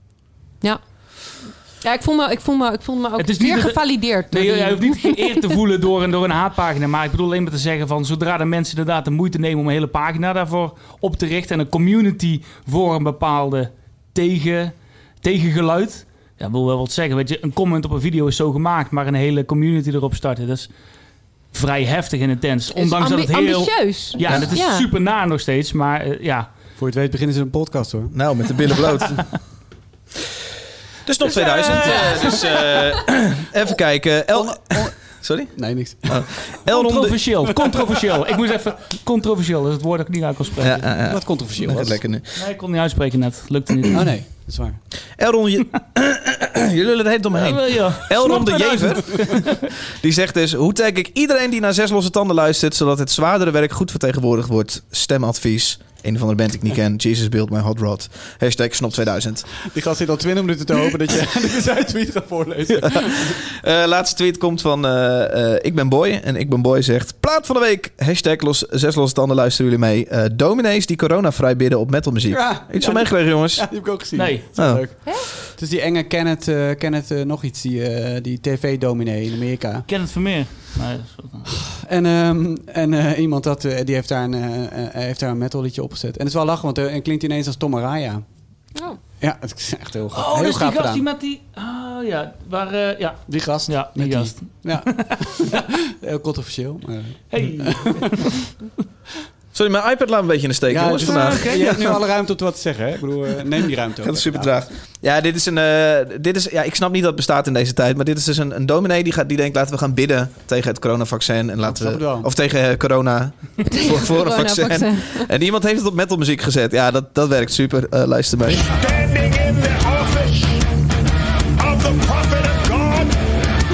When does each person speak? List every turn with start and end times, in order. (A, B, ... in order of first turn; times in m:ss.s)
0:00.6-0:05.6 A
0:03.2-0:20.7 B
0:21.5-0:26.5 B
0:22.7-0:24.9 A
0:24.2-0:24.5 C
0:26.8-0:28.2 D
0:28.1-0:29.4 C
0:31.0-0:37.5 C
0:31.2-0:33.0 A
0:34.3-0:36.4 D
0:36.7-0:40.9 B
0:40.6-0:42.4 C
0:41.0-0:42.0 D
0:42.3-0:44.0 B
0:43.9-0:44.8 D
0:45.1-0:59.5 C
0:47.3-0:49.6 B
0:59.7-1:03.4 D
1:02.7-1:13.9 C
1:12.3-1:19.8 D
1:14.1-1:14.5 B
1:14.5-1:14.8 C
1:19.9-1:21.5 B
1:21.7-1:28.2 D
1:29.2-1:31.0 D
1:30.1-1:35.6 B
1:33.3-1:38.3 D
1:37.3-1:38.4 B
1:39.5-1:42.0 C
1:40.7-1:44.6 D
1:41.0-1:41.7 B
1:44.0-1:58.7 C
1:51.6-1:52.3 D
1:53.7-1:55.3 A
1:58.5-2:00.6 E
2:01.6-2:03.2 E